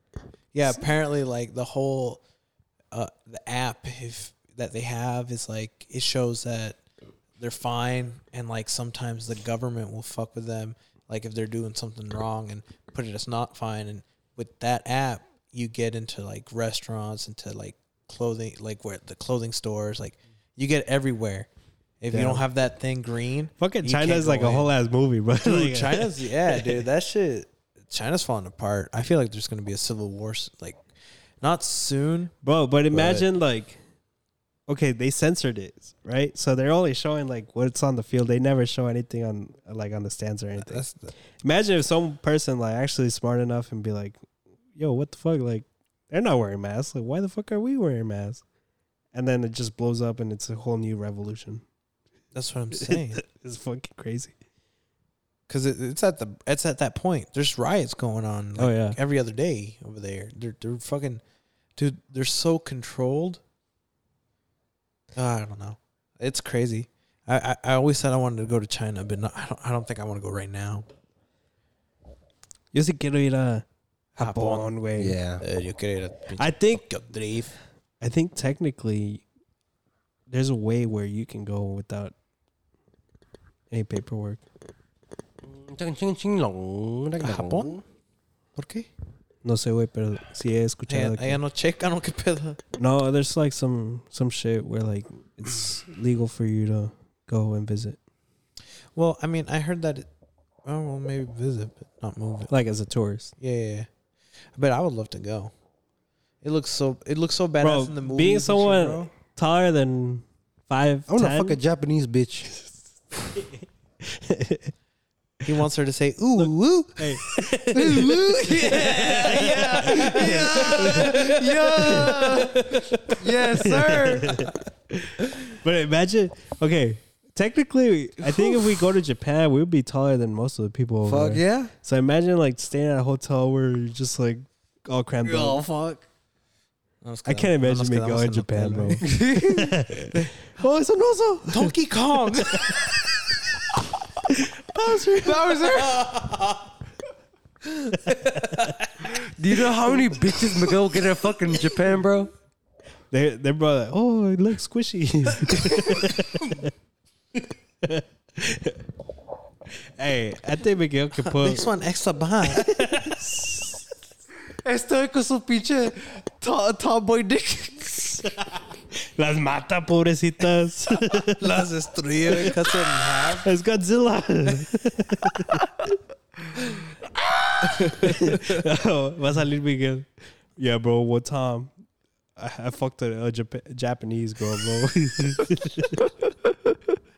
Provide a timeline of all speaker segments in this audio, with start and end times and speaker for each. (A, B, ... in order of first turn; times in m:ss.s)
0:00.5-0:02.2 A
0:02.9-0:06.8 A
0:07.4-0:21.5 A
0:22.0-0:24.7 A
0:22.1-0:22.4 B
0:23.6-0:26.8 B
0:25.4-0:30.8 A
0:31.4-0:32.3 A
0:32.4-0:33.8 B
0:32.9-0:33.2 A
0:34.7-0:44.2 B
0:40.6-0:41.1 A
0:44.8-0:48.4 B
0:49.1-0:51.6 B
0:52.3-0:53.2 A
0:52.8-0:54.3 B
0:55.5-1:01.2 A
0:58.6-0:59.0 B
1:01.8-1:03.4 A
1:05.2-1:10.9 A
1:12.7-1:15.2 B
1:14.2-1:14.7 A
1:15.0-1:15.4 C
1:15.4-1:17.5 A
1:16.4-1:16.8 B
1:18.0-1:19.2 B
1:20.3-1:22.1 B
1:23.7-1:24.4 B
1:25.4-1:27.8 C
1:27.2-1:27.8 A
1:28.6-1:28.9 A
1:29.4-1:31.4 B
1:30.9-1:32.6 A
1:32.8-1:38.0 B
1:39.0-1:40.1 A
1:40.6-1:42.5 A
1:42.5-1:43.3 B
1:43.4-1:43.9 A
1:44.6-1:45.5 A
1:46.4-1:49.1 A
1:47.6-1:51.6 B
1:51.1-1:52.5 C
1:54.0-1:54.7 B
1:55.4-1:57.1 A
1:56.4-2:15.6 B
1:57.7-2:04.5 C
1:58.7-2:01.1 A
2:08.2-2:08.8 C
2:11.0-2:11.7 C
2:15.2-2:16.0 C
2:17.0-2:19.0 A
2:17.3-2:21.7 B
2:19.0-2:19.8 C
2:21.5-2:22.7 A
2:22.5-2:22.8 B
2:24.3-2:25.4 B
2:24.9-2:26.4 C
2:29.0-2:32.3 C
2:33.1-2:36.7 B
2:35.6-2:36.1 C
2:37.8-2:38.8 B
2:40.0-2:41.7 B
2:41.3-2:42.7 A
2:42.6-2:43.8 B
2:44.6-2:48.3 C
2:49.2-2:51.6 B
2:51.4-2:53.5 A
2:53.4-2:55.6 B
2:57.6-2:58.6 A
2:57.8-3:01.7 B
3:02.4-3:06.0 B